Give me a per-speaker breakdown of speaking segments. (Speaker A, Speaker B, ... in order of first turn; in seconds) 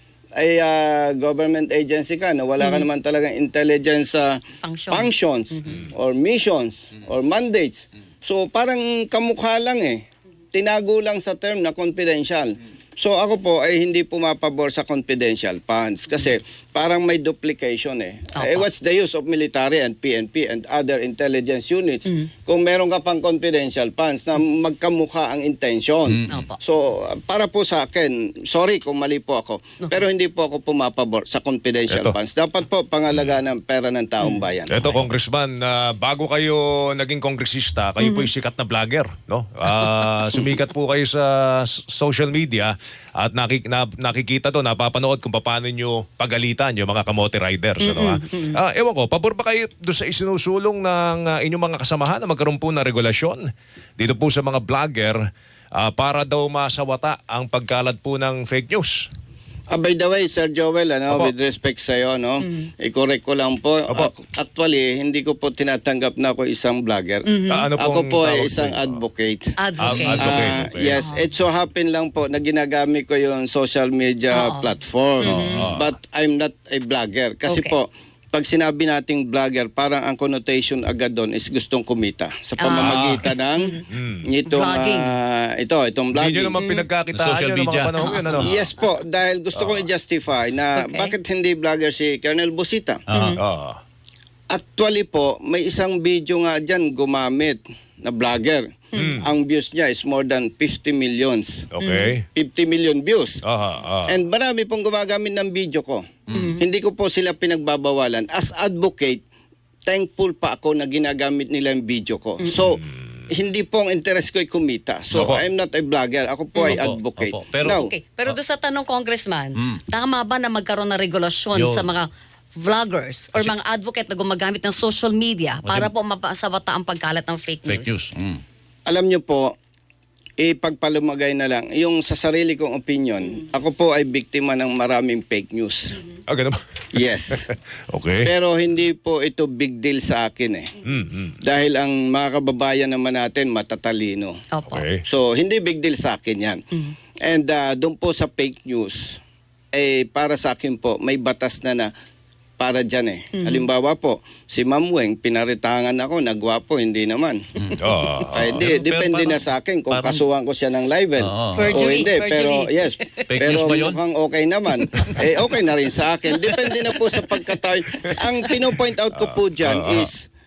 Speaker A: 0.4-34.7, 59.7-86.6, 88.4-93.0, 94.5-101.7, 102.3-103.4, 104.1-109.2, 109.9-117.9, 128.9-129.5, 130.4-136.0, 136.9-137.4, 138.2-140.7, 141.4-144.4, 145.0-146.6, 147.2-149.2, 149.7-151.9, 152.6-157.4, 158.3-170.3
Speaker B: 2.6-2.9, 4.6-5.8, 18.3-18.6, 26.3-26.6, 38.0-38.3, 47.8-48.5, 67.2-67.7, 69.6-70.3, 70.9-71.2, 74.3-74.7, 75.2-75.6, 77.5-77.8, 82.6-83.8, 84.5-85.1, 86.6-86.9, 88.0-88.2, 90.8-91.1, 101.8-102.1, 106.3-106.6, 117.7-122.1, 122.6-128.0, 144.5-144.8, 153.3-153.7, 161.6-163.3, 166.3-167.4
Speaker C: 31.9-32.1, 34.7-53.4, 54.0-55.2, 55.8-59.1, 67.5-69.0, 69.8-71.0, 75.2-75.9, 82.7-83.2, 83.9-84.3, 86.1-88.6, 89.6-89.8, 93.3-93.8, 98.9-99.2, 101.7-102.2, 103.4-104.2, 115.1-115.4, 136.3-137.0, 137.9-138.3, 140.8-141.4, 144.7-145.0, 157.8-158.5, 169.1-170.1
Speaker D: 87.1-88.5, 93.1-93.4, 106.3-106.5, 116.7-118.3, 121.5-121.8, 125.6-125.9, 127.7-128.4, 158.3-160.2, 161.2-161.8, 163.3-164.0